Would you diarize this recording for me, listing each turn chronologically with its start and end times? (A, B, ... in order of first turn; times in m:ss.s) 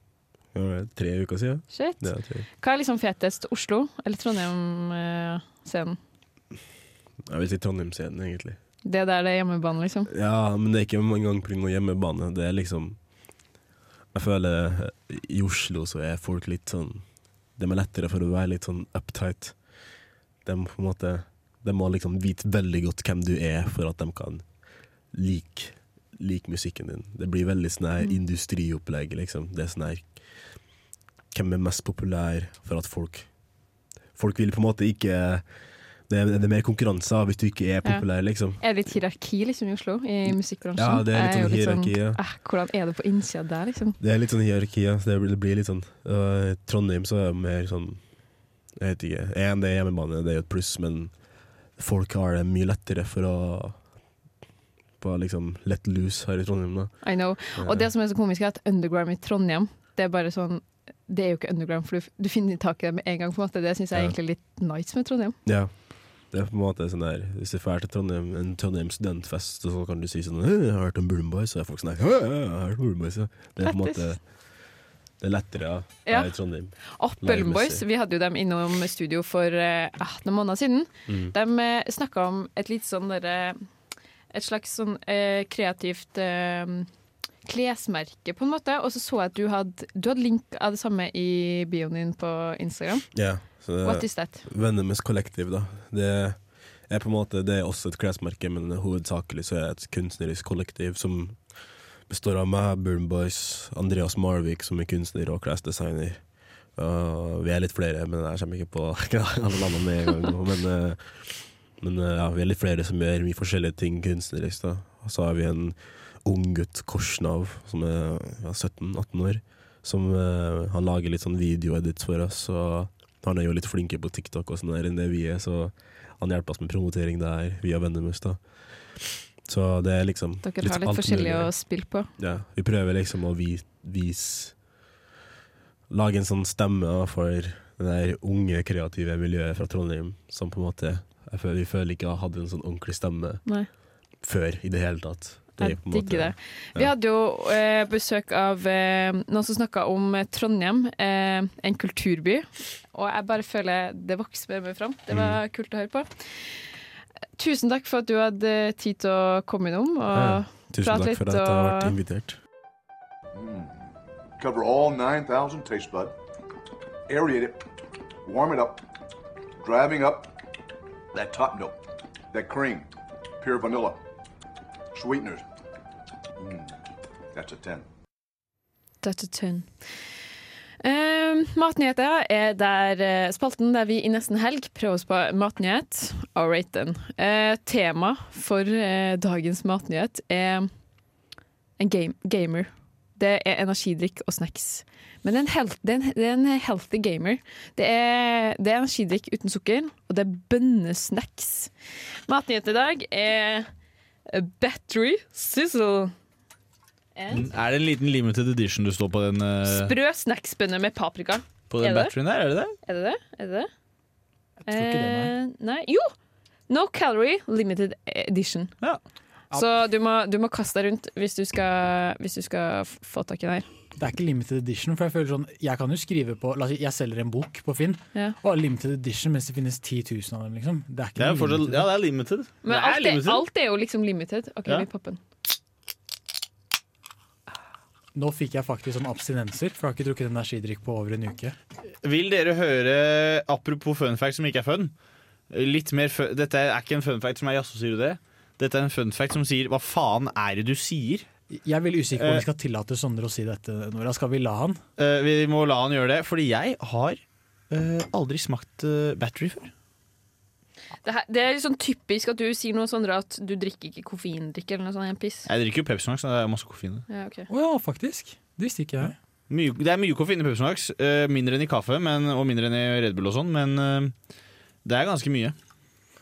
0:00.5-0:02.4 A
0:01.7-0:06.0 B
0:07.2-0:08.6 A
0:08.8-0:10.1 B
0:10.1-0:13.0 A
0:14.1-0:17.0 A
0:17.6-0:19.6 A
0:20.4-0:24.4 A
0:25.1-0:30.2 A
0:31.3-0:33.3 A
0:34.1-0:35.4 A
0:36.1-0:38.6 A
0:38.6-0:44.0 B
0:40.8-0:42.2 A
0:44.0-0:48.0 A
0:48.8-0:51.1 A
0:51.8-0:53.8 A
0:55.0-0:57.0 A
0:57.0-1:05.4 B
0:57.6-0:57.9 A
1:05.4-1:05.7 A
1:06.3-1:14.2 A
1:13.6-1:14.1 B
1:15.2-1:17.8 A
1:16.0-1:23.6 B
1:21.1-1:21.3 A
1:24.3-1:26.9 B
1:27.4-1:33.1 B
1:33.1-1:41.4 A
1:33.8-1:34.4 B
1:42.1-1:46.2 A
1:46.8-2:08.4 A
2:09.0-2:11.5 A
2:10.4-2:12.1 B
2:12.2-2:14.6 A
2:15.9-2:23.4 A
2:24.2-2:26.9 A
2:25.6-2:36.1 B
2:35.1-2:35.4 A
2:37.4-2:41.9 B
2:40.1-2:42.4 A
2:43.4-2:43.7 C
2:44.4-2:46.1 C
2:47.1-2:47.6 C
2:48.2-2:48.8 C
2:49.6-2:50.3 C
2:51.1-2:51.8 C
2:52.3-2:52.9 C
2:53.4-2:54.0 C
2:54.9-2:55.4 C
2:57.3-2:57.8 C
2:59.0-2:59.7 B
3:00.8-3:10.7 B
3:11.8-3:21.7 B
3:22.3-3:23.7 B
3:24.3-3:26.1 B
3:27.2-3:27.4 B
3:27.3-3:29.9 D
3:29.6-3:32.1 B
3:31.7-3:32.7 D
3:32.8-3:33.7 B
3:34.6-3:35.3 E
3:34.7-3:36.1 B
3:36.7-3:38.7 B
3:39.5-3:43.6 B
3:44.0-3:51.9 E
3:51.2-3:53.4 D
3:52.6-3:55.2 B
3:58.1-4:01.6 E
4:02.0-4:04.9 D
4:05.5-4:11.3 D
4:11.5-4:14.8 E
4:12.1-4:12.4 D
4:15.0-4:19.7 D
4:21.0-4:25.5 B
4:25.5-4:27.0 D
4:27.1-4:27.5 B
4:27.5-4:29.2 E
4:29.5-4:34.1 D
4:34.8-4:35.5 D